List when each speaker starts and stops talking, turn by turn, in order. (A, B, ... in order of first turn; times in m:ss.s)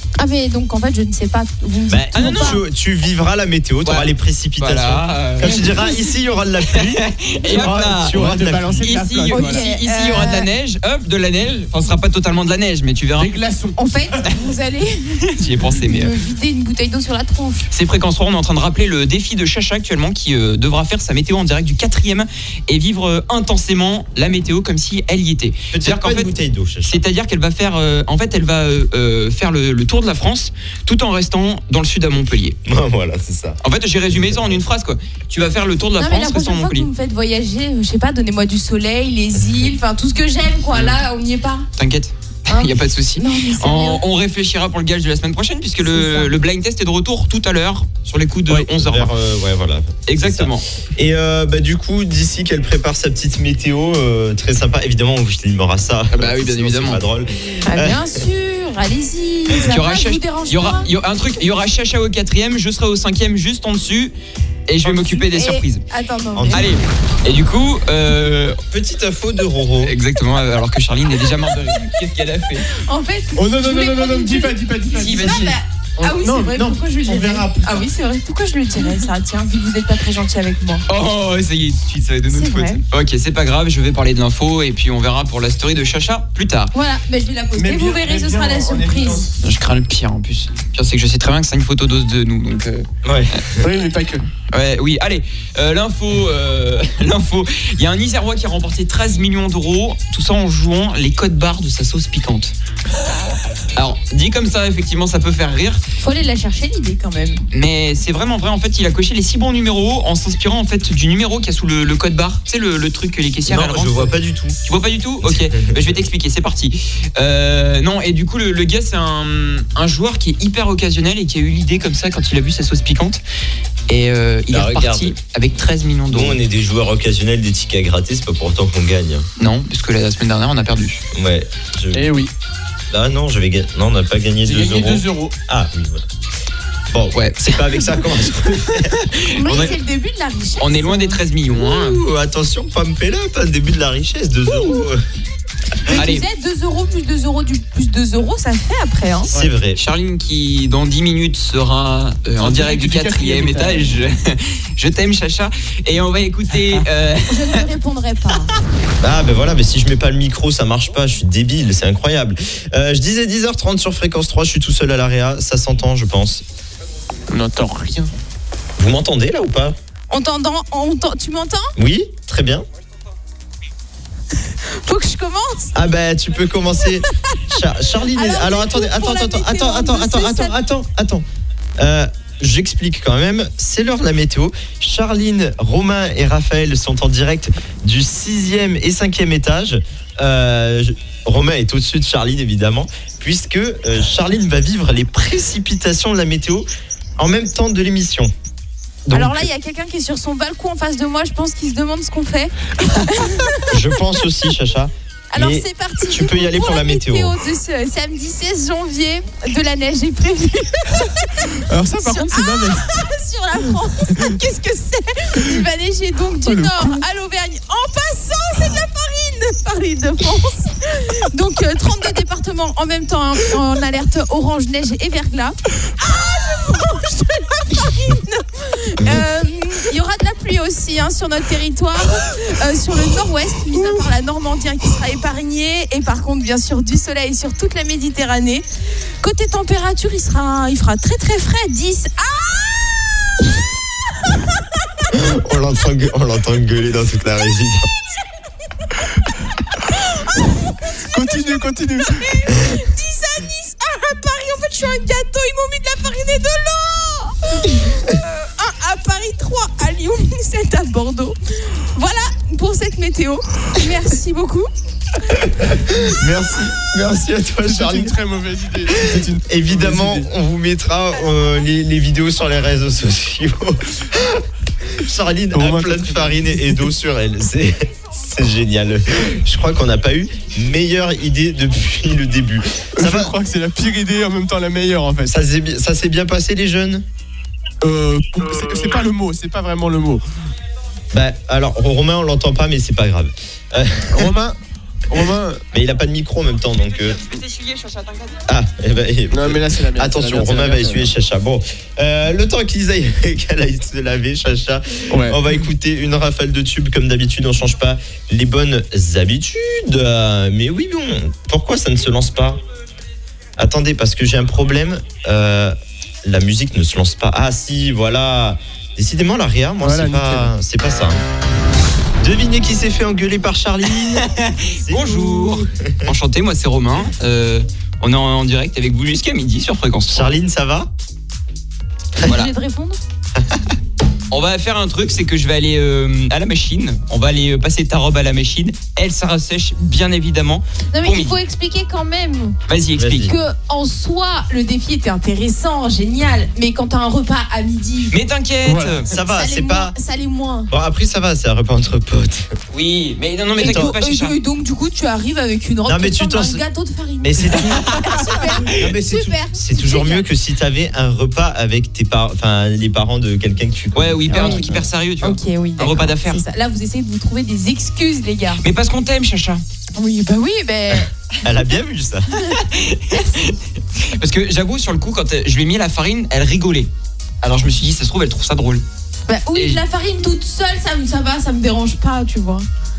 0:00.2-0:02.6 A
0:01.9-0:09.0 B
0:02.1-0:02.6 C
0:03.8-0:05.9 C
0:06.7-0:08.2 C
0:07.4-0:09.7 D
0:08.8-0:13.4 C
0:09.3-0:10.5 A
0:13.2-0:14.4 D
0:13.8-0:17.7 A
0:15.4-0:16.1 C
0:17.7-0:26.3 C
0:25.7-0:27.0 B
0:26.8-0:32.6 C
0:32.6-0:33.6 B
0:33.6-0:36.9 C
0:34.1-0:34.6 B
0:36.0-0:41.7 A
0:41.8-0:49.1 C
0:42.5-0:44.0 A
0:45.8-0:46.3 A
0:48.7-0:58.2 B
0:50.1-0:50.6 C
0:56.1-0:57.0 C
0:57.6-1:00.9 A
0:59.6-1:04.1 C
1:04.7-1:05.8 C
1:04.8-1:05.1 D
1:05.3-1:06.7 A
1:06.3-1:06.7 B
1:06.5-1:08.6 C
1:08.7-1:09.9 B
1:09.8-1:12.7 C
1:12.7-1:20.8 A
1:13.4-1:17.9 D
1:14.9-1:15.6 C
1:20.9-1:26.7 C
1:22.3-1:22.8 A
1:26.7-1:29.3 A
1:27.5-1:29.4 D
1:29.4-1:33.4 C
1:33.0-1:33.7 B
1:33.6-1:34.2 D
1:34.5-1:42.5 C
1:43.8-1:45.8 C
1:46.0-1:47.4 A
1:47.5-1:54.1 C
1:53.5-1:54.6 B
1:54.6-2:03.2 C
1:55.2-1:56.0 B
2:03.9-2:06.4 C
2:04.5-2:05.2 B
2:06.1-2:09.3 B
2:09.4-2:11.0 C
2:11.1-2:12.1 B
2:11.9-2:12.3 D
2:12.9-2:16.0 B
2:14.4-2:15.4 D
2:16.9-2:19.8 B
2:17.1-2:18.2 C
2:19.0-2:19.7 C
2:19.3-2:21.2 A
2:20.6-2:22.0 C
2:21.5-2:25.0 B
2:25.9-2:29.3 A
2:25.9-2:26.2 C
2:29.3-2:29.8 B
2:29.8-2:37.6 C
2:32.4-2:33.9 D
2:37.3-2:38.5 A
2:39.0-2:46.4 B
2:47.3-2:48.1 D
2:48.8-2:49.8 B
2:50.1-2:51.7 A
2:51.8-2:52.6 B
2:54.5-2:55.7 A
2:55.8-3:01.2 B
2:58.0-3:00.6 A
3:01.8-3:16.7 B
3:17.2-3:18.3 B
3:19.0-3:19.5 B
3:19.1-3:23.7 A
3:23.7-3:27.4 B
3:25.3-3:58.6 A
3:31.6-3:33.0 D
3:36.4-3:37.0 D
3:59.2-4:03.1 A
4:05.1-4:07.9 B
4:10.3-4:11.5 A
4:11.1-4:12.4 D
4:12.1-4:24.7 A
4:25.3-4:28.1 B
4:27.6-4:30.3 D
4:28.9-4:43.4 B
4:35.5-4:36.8 D
4:43.0-4:45.4 D
4:45.2-4:47.0 B
4:47.8-4:50.2 D
4:51.1-4:54.3 B
4:54.1-4:54.6 D
4:55.1-4:55.6 D
4:55.7-4:57.2 B
4:57.1-4:58.4 C
4:58.5-5:12.6 B
4:59.3-5:01.1 D
5:05.1-5:05.4 D
5:13.6-5:21.2 B
5:19.8-5:20.5 D
5:22.2-5:26.1 B
5:24.0-5:30.3 C
5:30.1-5:30.9 B
5:32.2-5:33.0 A
5:32.2-5:32.5 C
5:33.4-5:33.6 B
5:34.3-5:41.4 C
5:40.9-5:42.6 A
5:42.7-5:43.3 C
5:43.0-5:43.4 B
5:43.2-5:48.2 A
5:48.1-5:49.1 C
5:48.6-5:49.0 D
5:49.0-5:49.9 B
5:49.2-5:50.7 A
5:50.7-5:52.6 B
5:52.7-5:54.4 C
5:53.6-6:00.3 A
5:53.6-5:54.0 B
5:55.8-5:56.6 B
5:57.2-6:04.9 B
6:03.9-6:06.4 C
6:04.3-6:04.7 A
6:05.2-6:08.6 A
6:08.6-6:09.6 C
6:10.0-6:11.5 A
6:11.4-6:12.3 B
6:12.6-6:16.9 C
6:13.1-6:13.4 A
6:17.4-6:18.8 C
6:19.3-6:22.6 A
6:19.5-6:19.8 C